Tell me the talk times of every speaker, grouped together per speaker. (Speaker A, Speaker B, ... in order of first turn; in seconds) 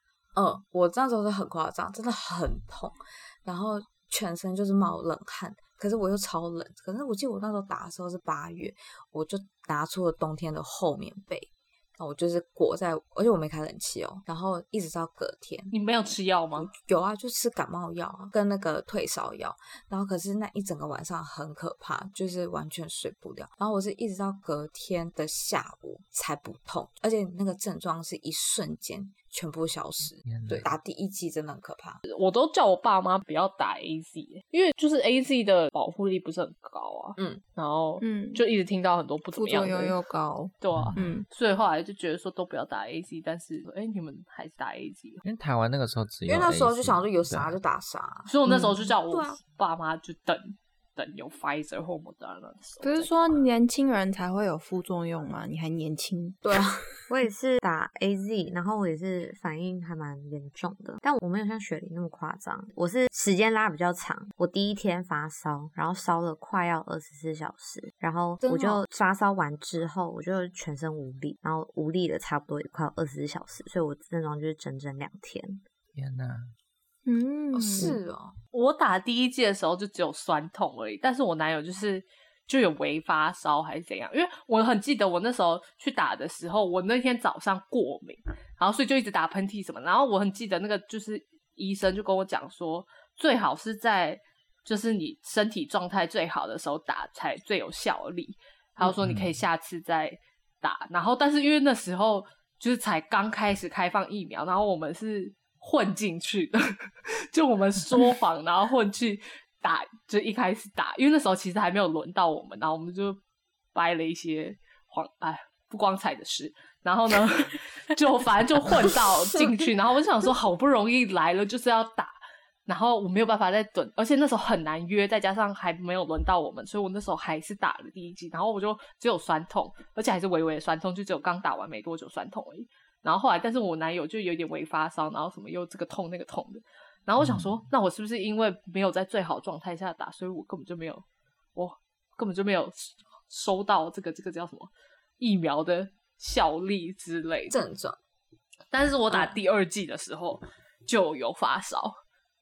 Speaker A: 0.3-15.8, 16.6-32.0, 46.3-49.4, 56.4-56.9, 68.4-68.8, 77.5-78.4, 147.5-148.0, 149.1-149.4
Speaker B: 15.7-16.7, 32.1-40.0, 40.6-45.2, 48.3-53.4, 78.5-113.2, 113.7-141.0, 141.6-147.6, 148.7-151.9
Speaker C: 30.2-30.7, 40.7-41.0, 45.2-47.6, 76.0-76.5, 99.0-99.4, 137.2-137.6
Speaker D: 38.0-38.4, 39.4-41.3, 52.8-56.4, 77.1-78.0
Speaker E: 57.1-75.6